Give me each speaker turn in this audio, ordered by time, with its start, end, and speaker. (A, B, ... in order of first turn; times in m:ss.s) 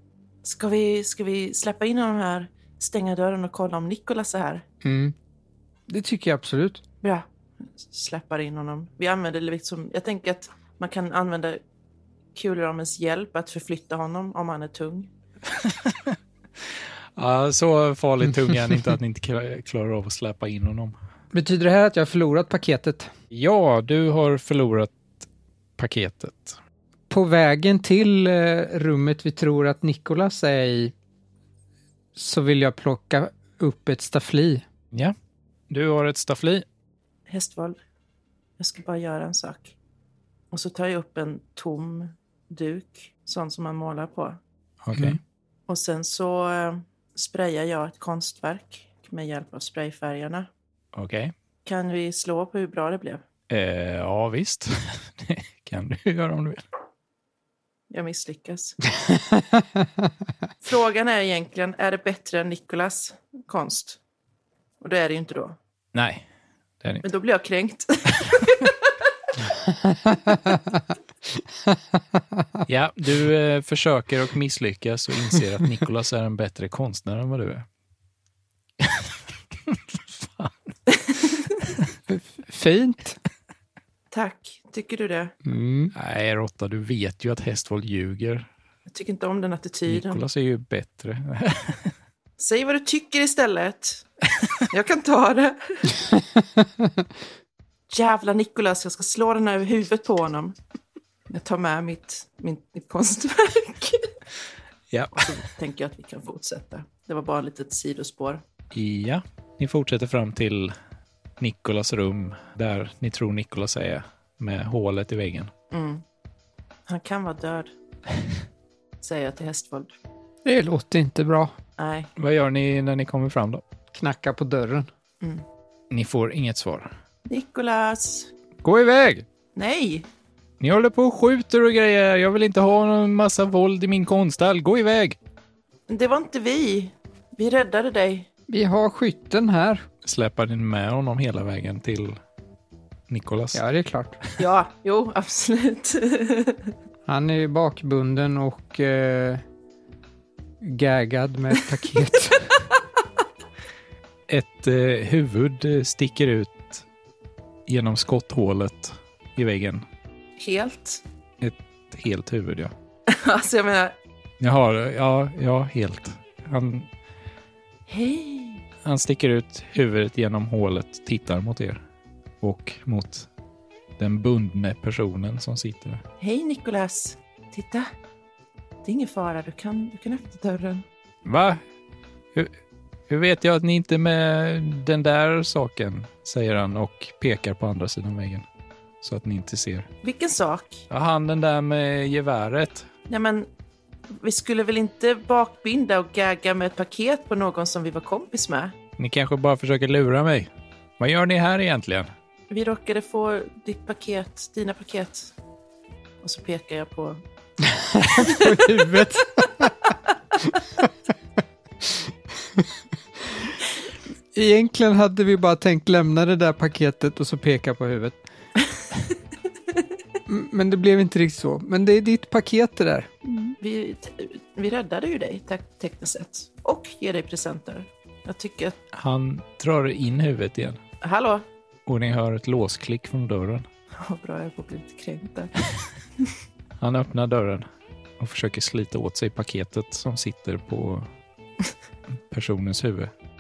0:00.4-0:04.6 A
0:04.8-0:05.1 B
0:05.9-0:06.8 B
0:07.0-0:11.6 A
0:12.4-0:15.1 A
0:15.5-0:16.2 C
0:16.7-0:21.0 C
0:21.3-0:23.1 B
0:23.3-0:25.3 C
0:25.8-0:26.6 C
0:27.1-0:30.9 B
0:32.2-0:34.6 B
0:35.7-0:36.6 C
0:37.3-0:37.8 A
0:38.6-0:39.8 A
0:40.5-0:44.4 A
0:44.8-0:45.2 C
0:45.7-0:50.5 A
0:50.9-0:51.3 C
0:51.6-0:53.2 A
0:53.5-0:56.6 C
0:57.9-0:58.8 A
0:59.0-1:00.1 B
1:00.6-1:04.0 A
1:04.8-1:05.6 A
1:05.9-1:06.3 C
1:07.0-1:08.9 A
1:09.6-1:10.8 B
1:11.6-1:12.4 B
1:12.7-1:17.7 C
1:18.8-1:20.8 C
1:22.1-1:23.2 B
1:24.1-1:25.3 A
1:25.4-1:25.9 B
1:25.9-1:28.5 C
1:28.9-1:30.2 A
1:29.9-1:31.9 C
1:32.4-1:34.1 A
1:34.6-1:36.1 A
1:36.2-1:36.9 B
1:37.9-1:40.6 A
1:41.3-1:44.1 A
1:44.9-1:45.4 C
1:45.2-1:48.4 A
1:48.7-1:50.7 C
1:51.4-1:55.5 C
1:55.7-1:56.0 A
1:56.9-1:57.7 A
1:59.0-1:59.9 A
2:00.4-2:01.5 B
2:01.8-2:02.1 A
2:02.2-2:03.6 C
2:03.9-2:04.9 B
2:05.9-2:06.9 C
2:07.3-2:08.3 A
2:08.6-2:09.3 C
2:09.6-2:10.1 A
2:10.6-2:15.2 C
2:15.9-2:18.3 A
2:18.5-2:19.9 B
2:20.0-2:22.2 C
2:23.1-2:23.6 C
2:23.5-2:24.2 B
2:24.4-2:26.7 A
2:27.1-2:29.4 B
2:30.6-2:32.5 B
2:34.3-2:36.9 C
2:37.7-2:39.8 C
2:40.4-2:41.0 A
2:41.4-2:42.7 C
2:43.1-2:44.0 A
2:44.4-2:46.9 C
2:47.9-2:48.6 A
2:48.8-2:51.8 C
2:52.4-2:53.3 C
2:54.0-2:56.0 C
2:56.2-2:57.9 A
2:58.8-3:00.8 A
3:01.2-3:01.6 C
3:03.1-3:08.5 C
3:09.0-3:09.9 C
3:10.0-3:10.9 A
3:10.9-3:12.9 C
3:13.1-3:13.5 A
3:14.1-3:18.7 A
3:19.0-3:22.1 C
3:22.5-3:25.3 A
3:26.2-3:27.2 A
3:27.6-3:30.9 B
3:34.3-3:38.2 B
3:40.3-3:43.1 B
3:43.2-3:48.8 A
3:48.9-3:50.8 C
3:51.0-3:51.4 A
3:51.9-3:53.7 C
3:54.0-3:55.5 A
3:56.8-3:57.7 C
3:58.2-4:01.1 C
4:02.1-4:03.1 C